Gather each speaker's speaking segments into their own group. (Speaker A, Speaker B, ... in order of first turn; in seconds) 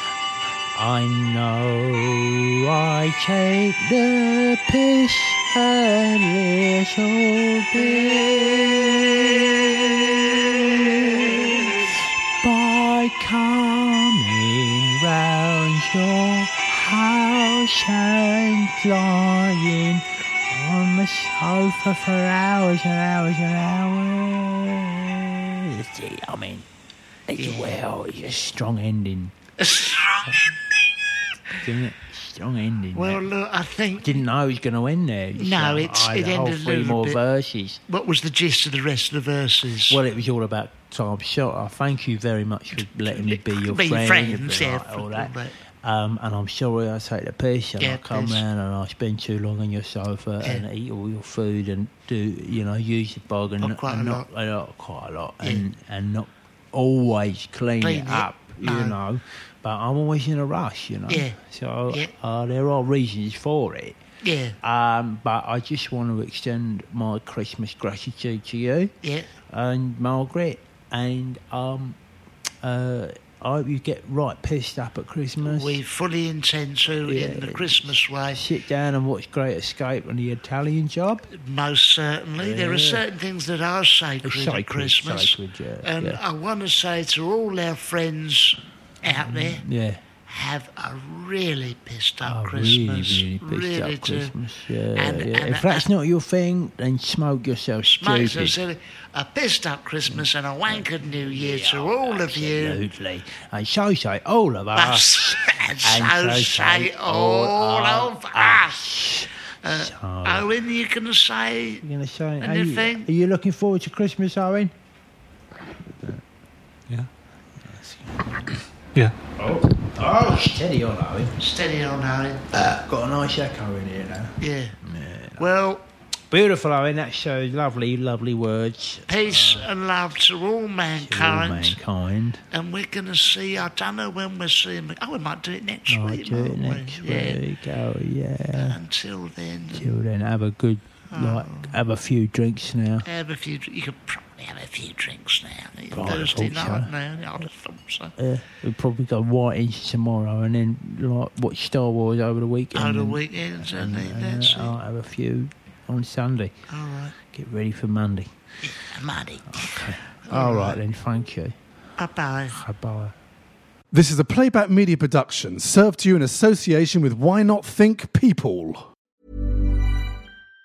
Speaker A: 0.7-26.6, 27.3-29.3, 31.6-33.3, 34.0-37.8, 39.9-45.3, 45.8-64.0, 64.6-68.9, 69.5-72.0, 72.6-75.8, 77.0-81.3, 82.4-83.0, 84.2-86.2, 89.0-90.0, 92.2-98.6, 100.1-110.5, 111.8-114.7, 117.6-118.6, 119.2-121.3, 122.5-125.5, 126.3-129.7, 131.0-132.4, 135.9-138.8, 139.7-143.1, 145.9-146.9, 148.2-156.5, 157.3-158.3, 159.5-161.6, 162.5-163.1
Speaker B: 7.8-12.0, 27.3-27.8, 29.6-30.6, 32.9-34.2, 35.4-37.2, 37.9-40.0, 42.7-45.5, 47.8-48.4, 53.6-54.2, 55.4-55.7, 57.8-59.0, 61.1-61.4, 64.2-64.6, 69.0-69.3, 75.4-78.4, 81.3-89.6, 90.2-94.3, 94.9-95.9, 97.9-102.8, 104.7-109.0, 109.6-111.8, 112.4-113.1, 121.4-122.5, 124.4-124.8, 125.4-125.8, 129.1-131.8, 132.5-137.4, 138.5-139.9, 141.1-141.7, 143.0-148.1, 152.7-154.7, 156.7-157.1, 158.6-160.8, 162.0-162.6
Speaker C: 163.9-168.9